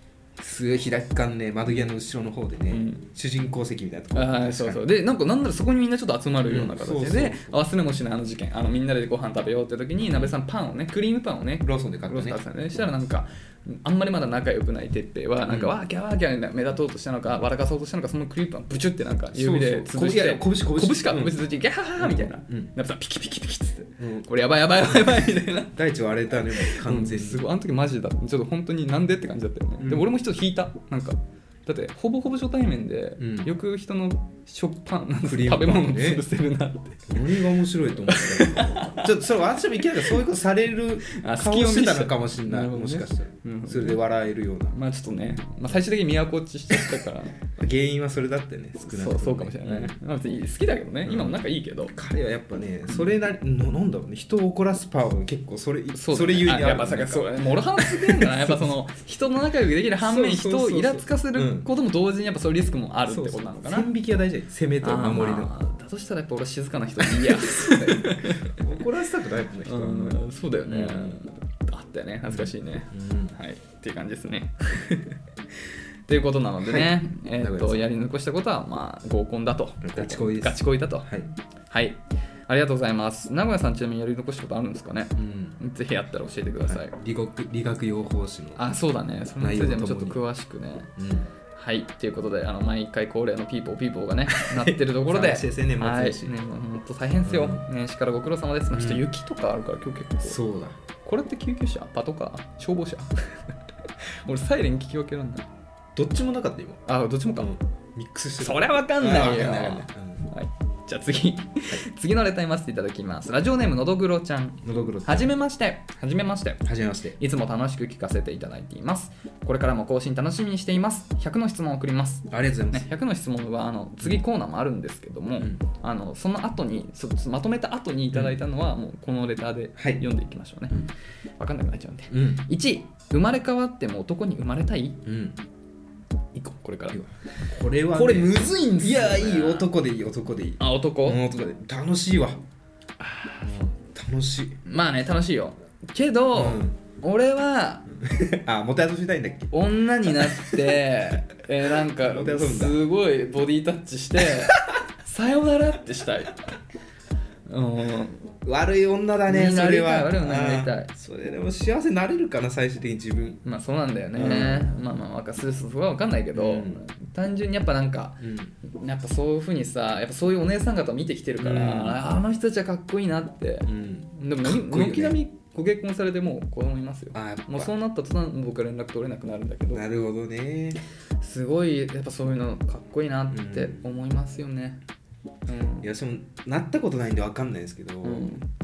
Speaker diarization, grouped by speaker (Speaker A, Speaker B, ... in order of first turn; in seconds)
Speaker A: 0.4-4.8, 6.4-7.6, 10.0-10.3, 11.6-12.4, 15.5-15.7, 19.3-21.4, 22.0-22.7, 24.0-24.3, 25.7-27.4, 29.8-30.1, 33.2-33.5, 35.2-36.2, 37.1-44.7, 47.5-49.9, 51.0-58.7, 60.0-61.7, 63.1-65.5, 67.0-71.2, 72.3-73.4, 76.6-77.9, 79.8-81.3, 85.2-85.6, 86.6-88.6, 89.4-90.2, 91.0-91.3, 94.3-96.3, 97.2-97.6, 98.7-99.0, 100.2-100.8, 106.0-106.8, 107.3-110.3, 114.6-115.3, 116.6-117.2, 122.3-122.9, 128.1-128.4, 129.8-130.0, 132.1-132.4, 135.0-135.4, 136.9-142.4, 143.4-144.6, 146.3-146.7, 147.9-149.5, 150.0-150.6, 151.8-152.8, 154.2-154.8, 158.4-163.4, 164.1-164.7, 166.3-166.8, 168.2-168.5, 171.4-172.0, 173.6-175.2, 177.1-177.7, 179.7-180.8, 183.3-183.8, 185.8-188.4
Speaker B: 2.7-3.0, 4.1-25.7, 26.3-37.4, 38.0-39.1, 41.1-44.0, 44.7-47.4, 48.8-51.9, 55.9-63.9, 64.8-68.7, 69.6-75.2, 76.1-81.1, 81.7-86.9, 88.6-90.9, 91.5-100.4, 101.0-105.5, 106.9-107.5, 108.4-116.6, 117.2-135.0, 136.3-137.0, 137.9-139.7, 140.6-141.2, 143.0-143.3, 144.6-147.8, 149.5-156.4, 157.5-158.3, 159.3-160.9, 163.4-179.8, 181.2-184.8, 185.4-185.9, 188.0-188.5